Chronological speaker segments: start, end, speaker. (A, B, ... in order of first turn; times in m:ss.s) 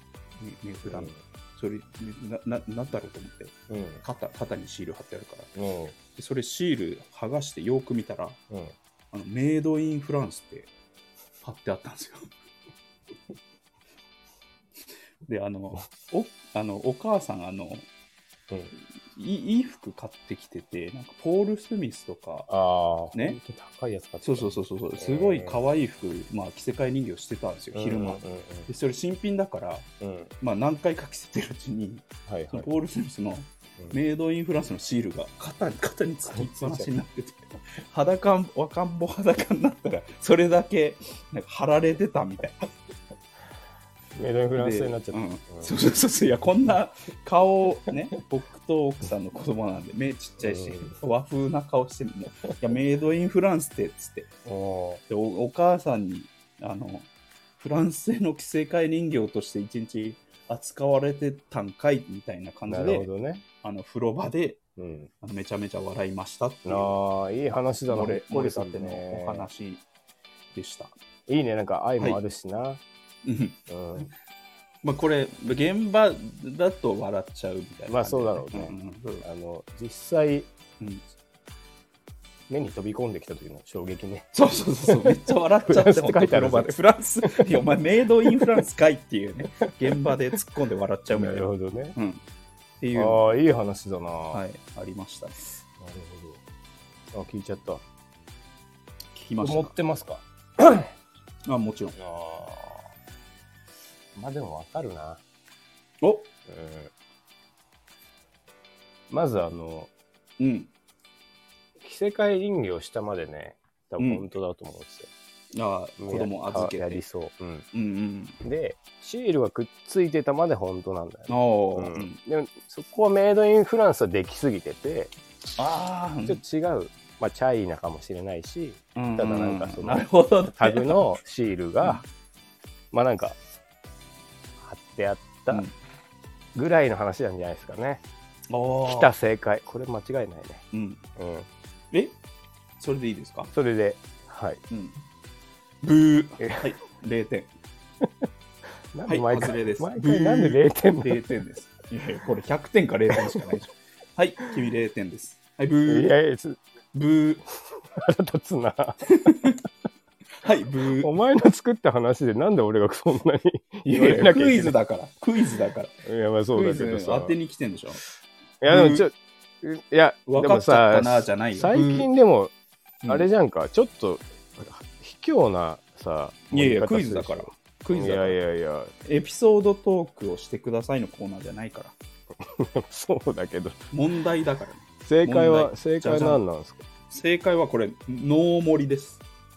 0:00.4-0:05.5 A
0:00.8-0:01.2 B
0:03.7-0:04.0 B
0:05.5-0:05.9 B
0:06.1-0:08.4 A
0:08.5-0:08.7 B
0:09.1-0:10.7 A
0:11.4-0:12.3 A
0:15.2-0:17.9 A
0:19.1-0:22.5 A
0:22.5-0:25.6 B
0:23.1-0:23.4 A
0:24.2-0:29.9 A
0:27.7-0:28.7 B
0:30.0-0:30.3 B
0:30.4-0:42.7 A
0:32.2-0:32.7 B
0:36.3-0:36.9 B
0:44.1-0:45.7 B
0:44.6-0:54.3 A
0:50.4-0:50.9 B
0:54.4-0:55.0 B
0:55.1-1:03.1 A
1:02.7-1:03.4 B
1:03.6-1:04.6 A
1:04.8-1:05.1 B
1:05.2-1:07.0 A
1:06.6-1:09.5 B
1:07.9-1:09.8 A
1:10.5-1:10.9 A
1:11.3-1:12.8 B
1:13.2-1:14.1 A
1:13.7-1:14.1 B
1:14.8-1:19.2 A
1:17.9-1:20.5 B
1:22.5-1:27.7 B
1:24.3-1:32.2 A
1:31.1-1:32.0 B
1:32.8-1:33.3 A
1:32.9-1:34.4 B
1:34.3-1:35.4 A
1:35.8-1:36.4 B
1:37.1-1:37.8 B
1:39.2-1:39.7 A
1:39.4-1:40.9 B
1:41.4-1:42.0 A
1:42.0-1:42.9 B
1:44.1-1:45.2 B
1:46.0-1:46.3 A
1:46.5-1:46.9 B
1:49.1-1:49.9 B
1:50.4-1:50.7 A
1:51.8-1:55.1 B
1:54.0-1:54.3 A
1:55.5-1:57.0 A
1:56.0-1:57.6 B
1:57.7-1:58.4 A
1:58.4-2:05.1 B
2:01.3-2:02.2 A
2:05.6-2:06.4 A
2:06.2-2:12.0 B
2:09.0-2:11.0 A
2:12.9-2:13.4 B
2:14.6-2:15.6 B
2:16.5-2:18.0 B
2:18.5-2:19.1 A
2:18.8-2:20.6 B
2:20.7-2:21.0 A
2:21.2-2:21.5 B
2:22.8-2:23.5 A
2:23.5-2:24.6 B
2:24.7-2:25.0 A
2:25.8-2:27.5 A
2:26.4-2:26.6 B
2:28.9-2:31.2 B
2:29.1-2:36.1 A
2:33.1-2:33.5 B
2:35.9-2:36.6 B
2:36.9-2:37.4 A
2:37.8-2:39.1 B
2:39.1-2:39.6 A
2:40.4-2:41.1 A
2:41.0-2:44.7 B
2:43.8-2:45.9 A
2:46.0-2:47.3 B
2:46.5-2:48.0 A
2:48.6-2:52.5 B
2:48.6-2:49.1 A
2:50.3-2:52.1 A
2:53.0-2:53.3 A
2:53.1-2:58.9 B
2:56.5-2:58.4 A
2:59.0-3:01.9 A
3:02.4-3:03.8 B
3:03.9-3:06.4 A
3:05.0-3:06.8 B
3:07.1-3:09.2 A